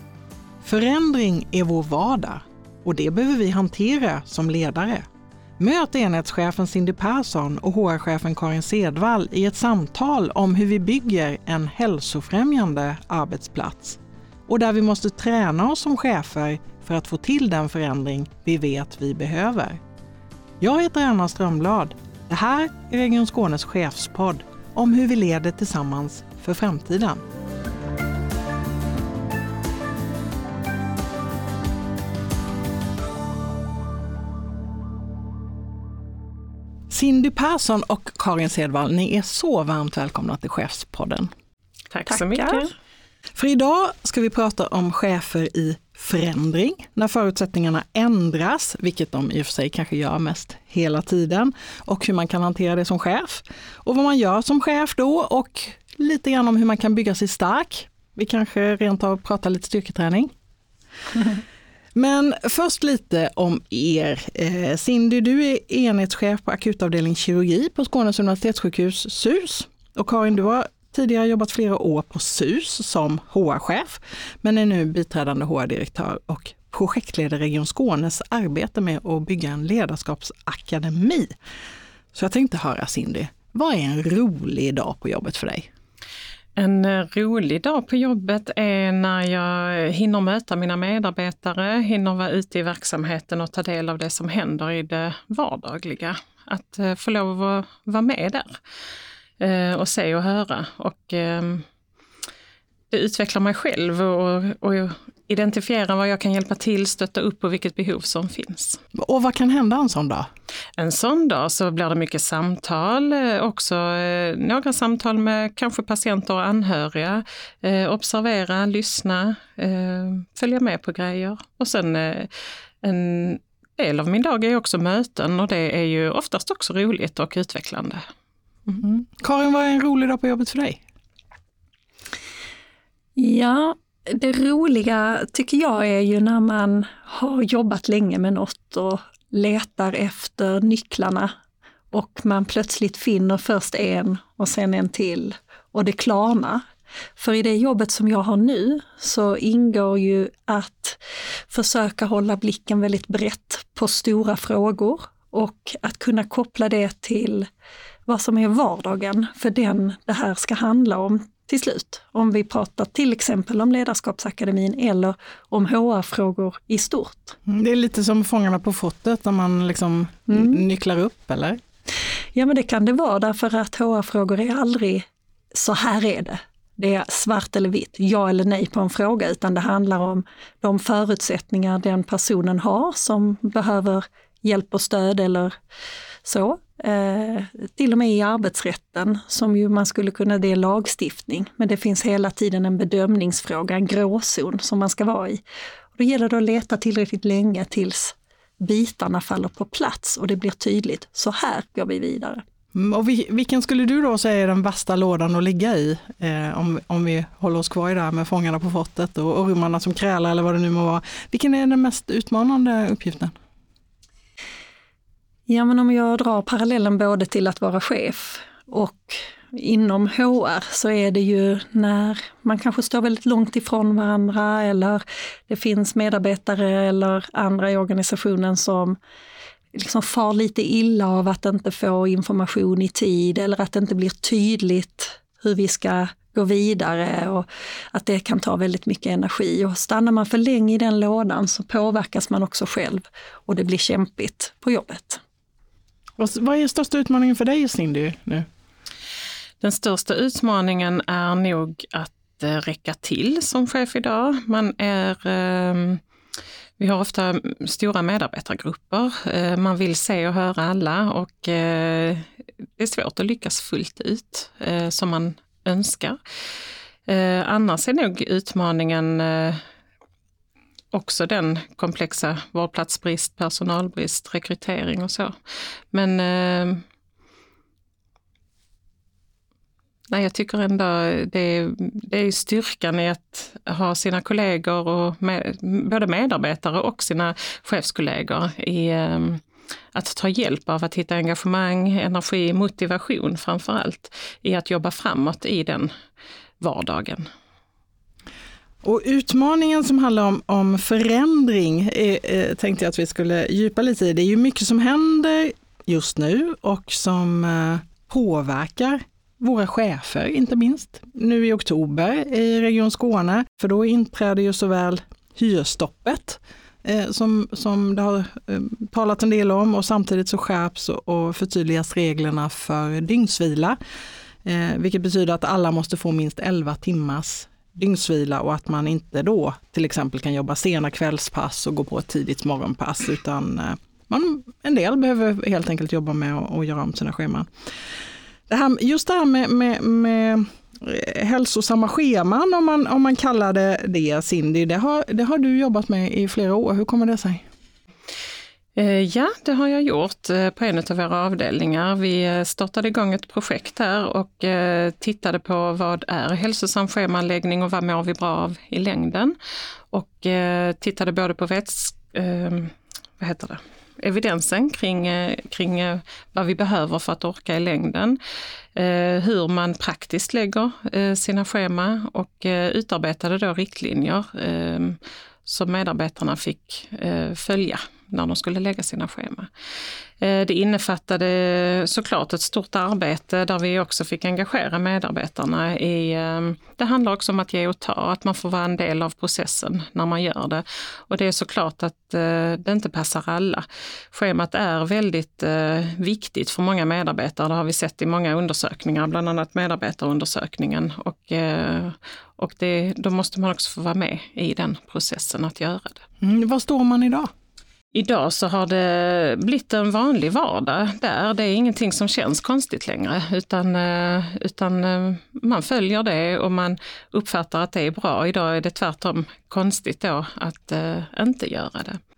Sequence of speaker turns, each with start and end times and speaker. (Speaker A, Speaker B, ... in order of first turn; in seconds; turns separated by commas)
Speaker A: 0.6-5.1, Speaker A: 5.6-19.8, Speaker A: 20.6-27.2, Speaker A: 36.9-41.3, Speaker B: 41.9-42.7, Speaker C: 42.1-42.7, Speaker A: 43.4-60.3, Speaker A: 62.0-81.3, Speaker A: 82.1-85.7, Speaker B: 86.6-98.6, Speaker B: 99.4-101.7, Speaker B: 102.9-108.8, Speaker A: 108.9-110.3, Speaker B: 110.8-128.1, Speaker A: 128.8-130.8, Speaker C: 133.2-141.3, Speaker C: 141.9-146.6, Speaker C: 147.2-157.5, Speaker C: 158.1-167.4, Speaker A: 167.5-171.6, Speaker C: 170.3-170.6, Speaker C: 172.3-185.5, Speaker C: 186.2-195.4, Speaker C: 196.0-202.4, Speaker A: 202.7-213.3, Speaker C: 215.5-229.0, Speaker C: 229.7-245.2, Speaker A: 246.2-248.5, Speaker B: 249.6-256.0, Speaker B: 256.8-266.2, Speaker B: 267.1-269.6, Speaker B: 270.9-275.4, Speaker B: 275.9-276.8, Speaker B: 280.1-289.4, Speaker B: 289.9-295.9, Speaker B: 296.6-297.3, Speaker A: 298.8-323.8, Speaker A: 324.4-337.5, Speaker A: 338.5-347.4, Speaker B: 348.8-359.4, Speaker B: 359.9-368.2, Speaker B: 368.8-379.5, Speaker B: 380.2-406.0, Speaker A: 406.2-407.3, Speaker B: 407.9-422.0